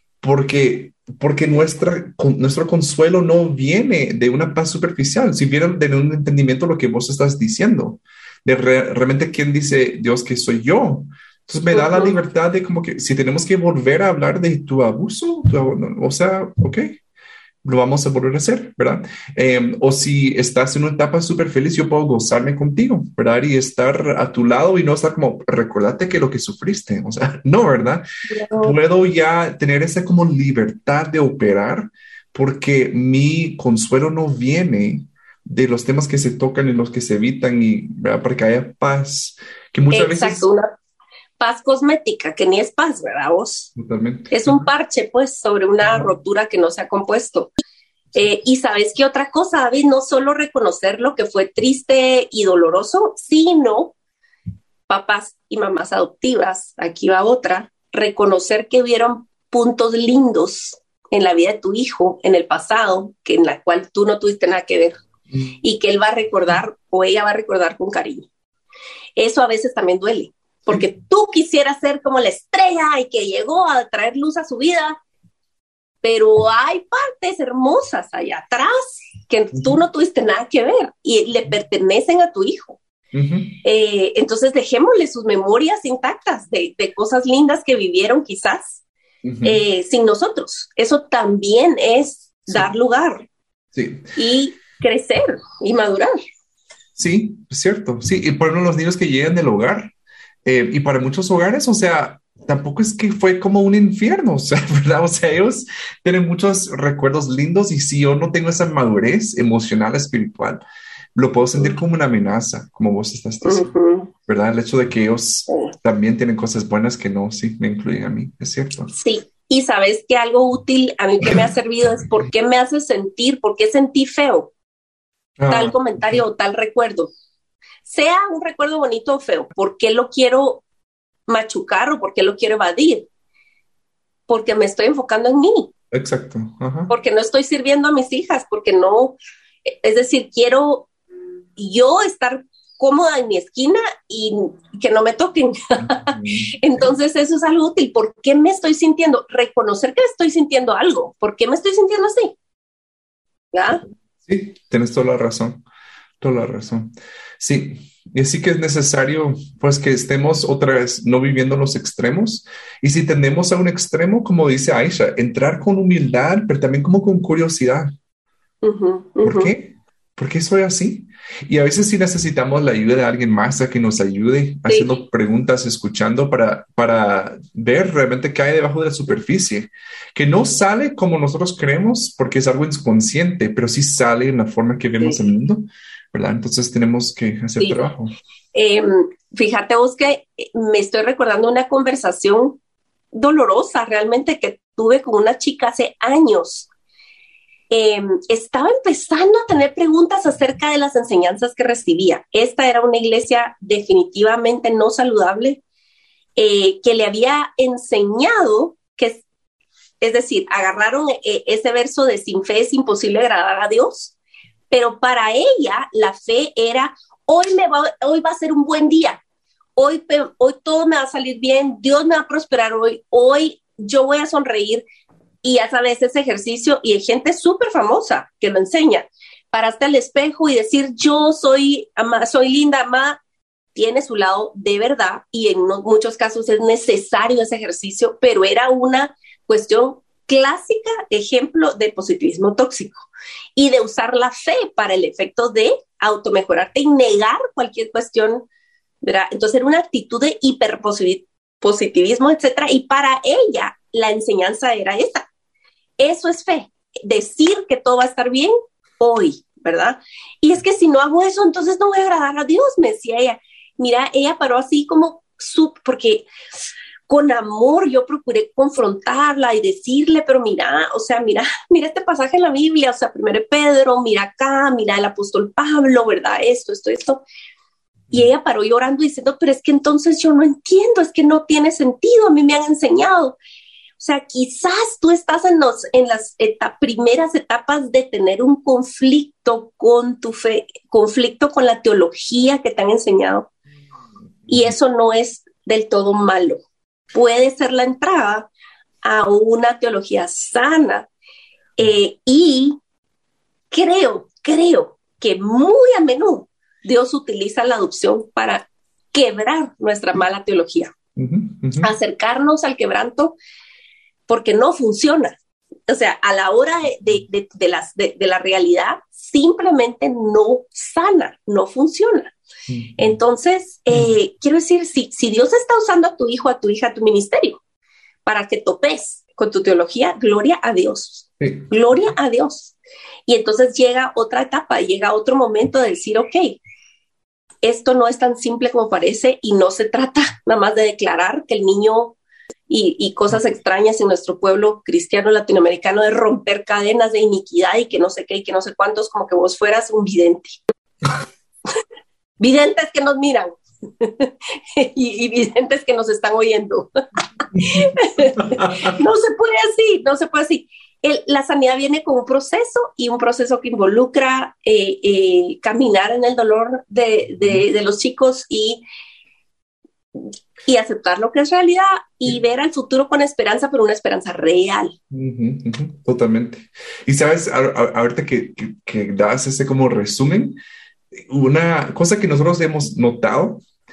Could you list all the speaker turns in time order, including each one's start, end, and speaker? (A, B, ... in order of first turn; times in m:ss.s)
0:00.2-0:17.0 A
0:11.7-0:12.2 B
0:17.6-0:40.5 A
0:28.3-0:28.7 B
0:39.9-0:40.7 B
0:41.4-0:43.7 B
0:43.8-0:44.7 A
0:44.3-0:47.5 B
0:45.8-0:46.1 A
0:48.1-0:54.0 B
0:54.9-1:05.0 B
1:05.6-1:08.3 B
1:09.2-1:15.0 B
1:16.0-1:22.8 B
1:19.5-1:19.8 A
1:23.1-1:23.6 A
1:23.6-1:28.8 B
1:29.2-1:29.6 A
1:29.4-1:33.3 B
1:33.7-1:34.1 A
1:34.2-1:36.2 B
1:37.0-1:39.9 A
1:40.4-1:50.6 A
1:51.1-1:53.8 A
1:53.4-1:54.1 B
1:54.3-1:58.9 A
1:58.9-2:04.5 B
2:05.4-2:06.2 A
2:05.5-2:07.1 B
2:07.8-2:10.6 B
2:11.3-2:13.1 B
2:14.3-2:15.7 B
2:15.9-2:16.9 A
2:16.9-2:20.9 B
2:21.6-2:32.4 B
2:25.8-2:26.9 A
2:33.5-2:33.8 B
2:34.2-2:35.6 A
2:36.2-2:47.9 A
2:48.6-2:49.5 B
2:49.2-3:08.1 A
2:54.7-2:54.9 B
3:08.5-3:12.6 B
3:13.1-3:16.7 B
3:17.7-3:25.6 B
3:26.4-3:29.2 B
3:30.0-3:34.2 B
3:34.7-3:39.2 B
3:39.8-3:44.8 B
3:45.4-3:53.2 B
3:53.8-4:08.5 B
4:09.0-4:15.3 B
4:16.0-4:26.3 B
4:27.1-4:37.2 B
4:38.1-4:43.4 B
4:44.0-4:53.5 B
4:54.5-4:54.7 A
4:54.5-4:58.5 B
4:59.0-5:01.1 B
5:01.8-5:02.8 B
5:03.7-5:10.9 B
5:11.2-5:11.9 A
5:11.8-5:13.4 B
5:14.3-5:15.4 B
5:15.9-5:22.3 B
5:22.7-5:23.2 A
5:23.0-5:27.6 B
5:28.2-5:32.8 B
5:31.4-5:31.7 A
5:33.3-5:36.6 B
5:37.6-5:42.2 B
5:42.7-5:50.6 B
5:52.4-5:56.9 B
5:57.5-5:58.7 A
5:57.5-6:08.8 B
6:07.4-6:07.6 A
6:10.2-6:15.0 B
6:15.1-6:20.6 A
6:21.1-6:23.6 A